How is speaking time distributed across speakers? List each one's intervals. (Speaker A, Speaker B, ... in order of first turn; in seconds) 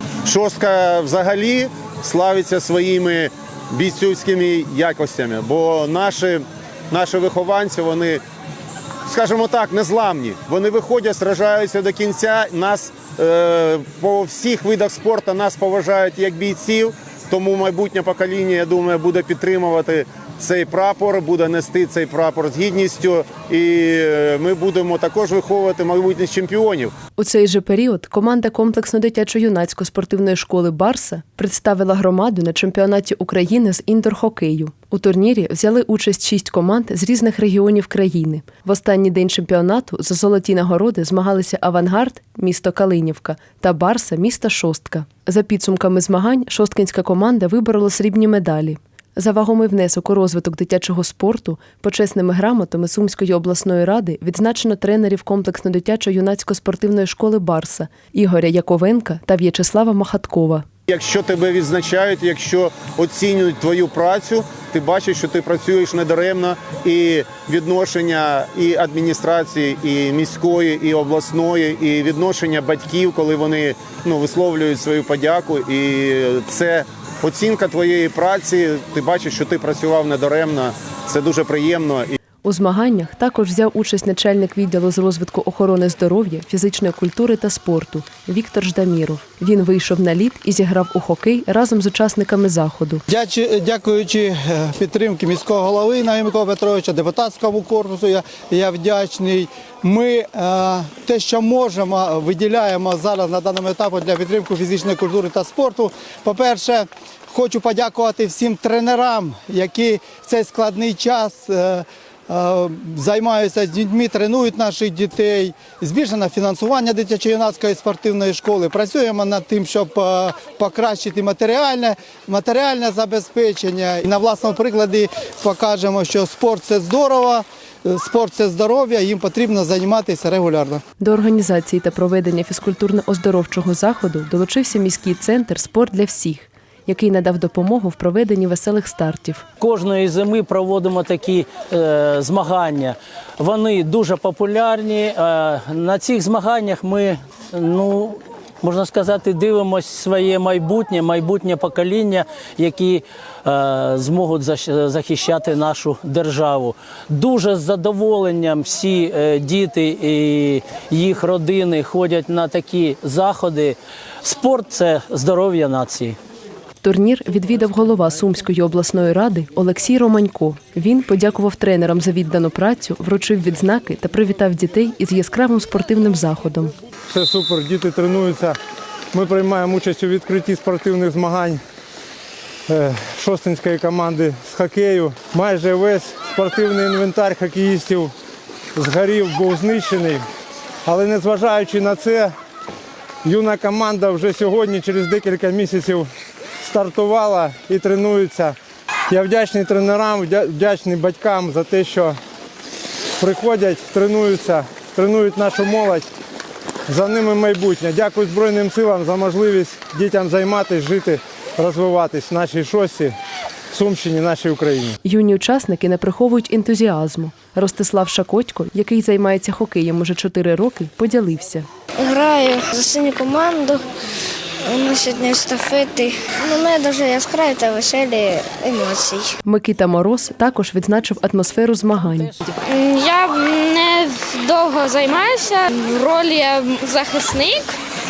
Speaker A: 0.2-8.2, 9.1-26.9, 60.9-82.2
Speaker B: 27.2-60.6, 82.4-93.0, 131.0-139.4, 166.8-176.7, 215.0-221.7, 229.4-232.3
Speaker C: 93.1-130.8
Speaker D: 139.6-166.2
Speaker E: 177.1-178.6, 179.1-181.6, 182.7-188.1, 188.7-190.2, 190.8-192.3, 193.2-196.1, 196.6-198.6, 199.1-202.2, 203.2-206.1, 206.9-213.1, 213.7-215.0
Speaker F: 221.9-223.8, 224.6-229.3
Speaker G: 232.6-237.7